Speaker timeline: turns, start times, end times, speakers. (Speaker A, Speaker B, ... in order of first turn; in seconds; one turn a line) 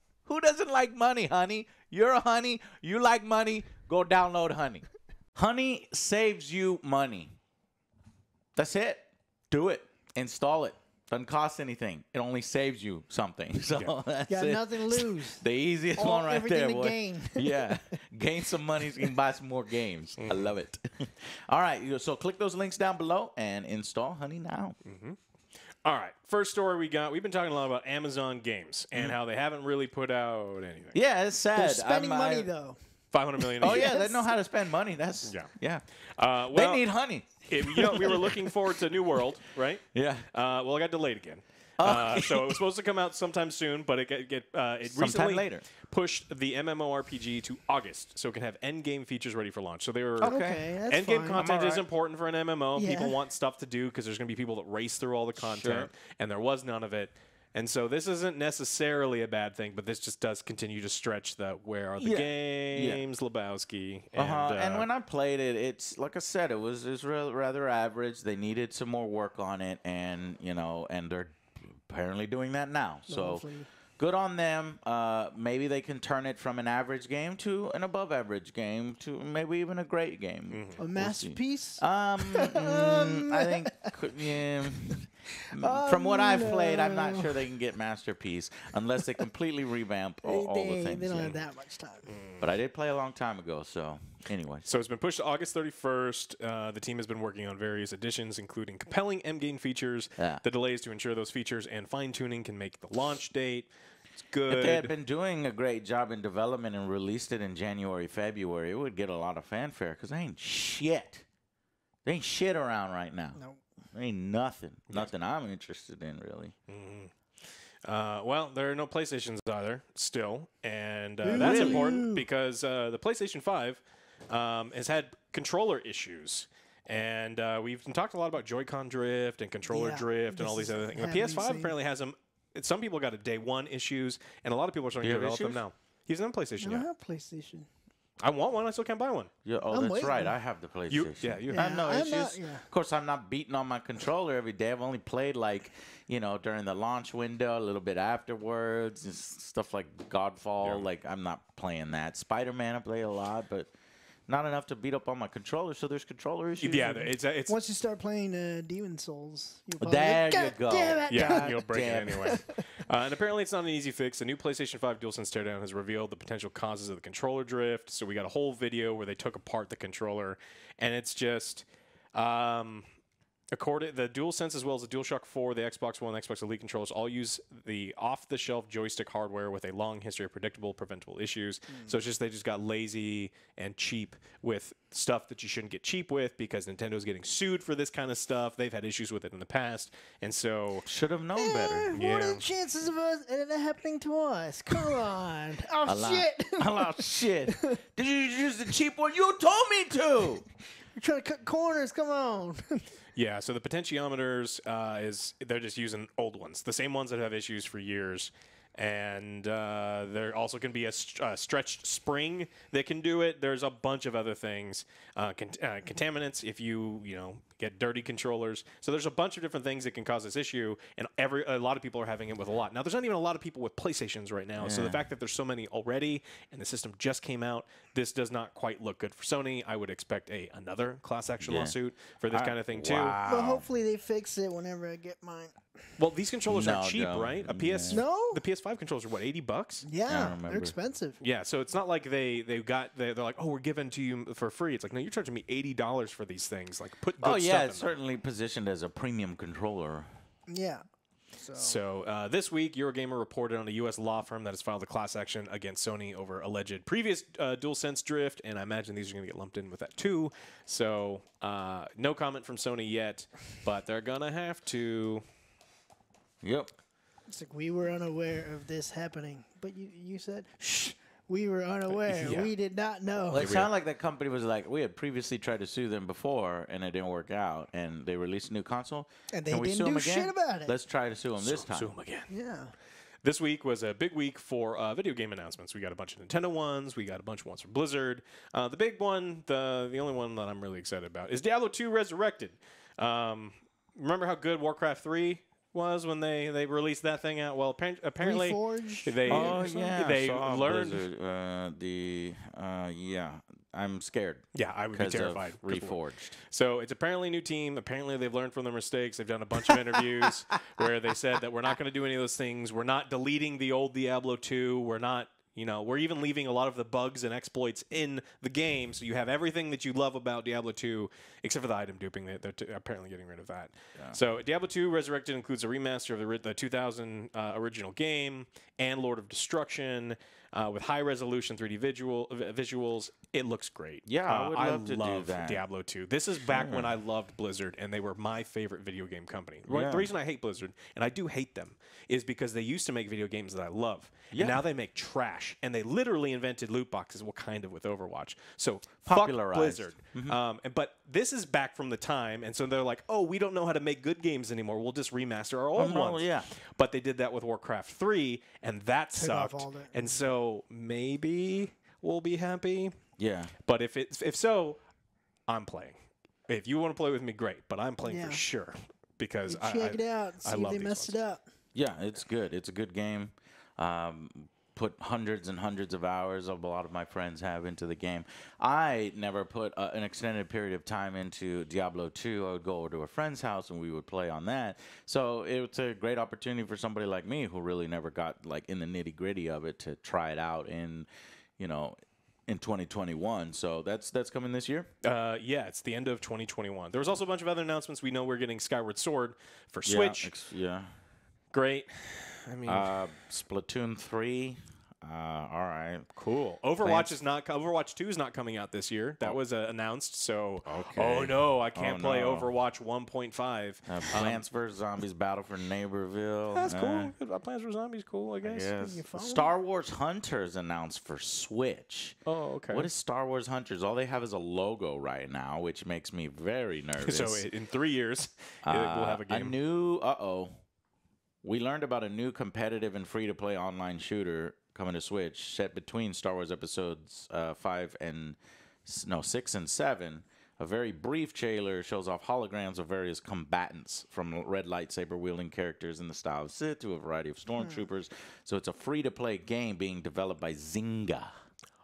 Speaker A: 0.2-4.8
Speaker A: 5.3-7.3
Speaker A: 8.6-24.8
Speaker B: 14.3-17.9
Speaker C: 20.2-20.5
Speaker C: 24.9-25.2
Speaker C: 25.8-31.0
Speaker A: 30.9-32.5
Speaker B: 31.5-32.8
Speaker C: 33.1-34.0
Speaker B: 33.4-34.3
Speaker A: 33.6-35.8
Speaker C: 35.2-35.5
Speaker C: 36.1-36.9
Speaker A: 36.5-38.4
Speaker C: 37.4-64.9
Speaker A: 39.9-40.3
Speaker A: 41.8-42.6
Speaker A: 44.9-45.7
Speaker A: 50.2-50.7
Speaker B: 50.2-51.5
Speaker A: 51.3-51.9
Speaker B: 52.7-53.2
Speaker A: 55.4-55.9
Speaker A: 62.0-63.0
Speaker A: 64.1-73.5
Speaker B: 73.1-73.7
Speaker A: 74.0-91.4
Speaker C: 80.5-80.8
Speaker B: 80.8-83.9
Speaker B: 85.5-87.4
Speaker B: 90.2-92.1
Speaker C: 92.1-92.4
Speaker A: 92.4-94.7
Speaker C: 94.6-103.7
Speaker A: 100.2-100.4
Speaker C: 104.3-104.9
Speaker A: 104.5-111.2
Speaker A: 112.0-113.4
Speaker B: 113.3-113.6
Speaker A: 113.9-116.5
Speaker C: 116.7-117.1
Speaker C: 117.8-136.8
Speaker B: 121.2-122.2
Speaker A: 121.2-121.9
Speaker B: 129.7-131.7
Speaker A: 135.0-135.6
Speaker B: 136.6-137.7
Speaker C: 138.2-139.3
Speaker A: 139.4-153.7
Speaker B: 139.7-140.3
Speaker C: 140.9-141.6
Speaker B: 141.5-142.6
Speaker A: 154.3-157.0
Speaker C: 156.6-157.5
Speaker B: 156.8-161.6
Speaker A: 159.8-162.4
Speaker C: 161.1-172.9
Speaker B: 162.1-162.4
Speaker C: 173.5-190.9
Speaker A: 190.8-191.9
Speaker B: 191.3-197.8
Speaker C: 191.9-192.4
Speaker A: 195.8-200.4
Speaker B: 200.9-202.8
Speaker C: 203.1-233.2
Speaker A: 224.6-225.0
Speaker A: 231.4-231.8
Speaker A: 232.3-233.7
Speaker B: 233.2-235.7
Speaker C: 236.0-239.8
Speaker A: 236.5-238.0
Speaker B: 237.9-238.4
Speaker B: 239.8-241.2
Speaker A: 240.1-240.7
Speaker C: 241.2-247.9
Speaker A: 247.2-250.1
Speaker B: 250.5-250.8
Speaker B: 251.3-251.8
Speaker C: 251.6-265.2
Speaker A: 266.4-266.7
Speaker B: 267.3-273.5
Speaker C: 272.0-272.5
Speaker A: 273.3-281.9
Speaker C: 273.4-273.7
Speaker B: 279.3-280.7
Speaker C: 281.4-282.3
Speaker B: 282.3-282.7
Speaker C: 283.2-301.1
Speaker B: 298.2-299.6
Speaker A: 299.3-306.4
Speaker C: 304.5-362.9
Speaker A: 334.1-335.6
Speaker A: 336.5-336.9
Speaker A: 339.7-340.1
Speaker A: 344.3-344.6
Speaker A: 349.0-350.4
Speaker A: 355.7-356.5
Speaker B: 359.1-360.2
Speaker A: 363.2-363.5
Speaker C: 363.6-364.8
Speaker C: 365.5-371.2
Speaker B: 368.0-368.4
Speaker B: 369.4-371.4
Speaker A: 371.7-394.9
Speaker C: 395.0-400.3
Speaker A: 399.9-400.9
Speaker C: 401.5-402.9
Speaker A: 402.6-406.1
Speaker C: 406.2-414.4
Speaker A: 406.8-407.1
Speaker A: 410.6-412.5
Speaker A: 413.9-417.1
Speaker C: 416.5-418.7
Speaker A: 418.4-427.4
Speaker B: 418.8-419.5
Speaker C: 422.2-422.9
Speaker C: 427.0-429.6
Speaker A: 428.6-430.5
Speaker A: 431.4-451.3
Speaker B: 447.6-447.9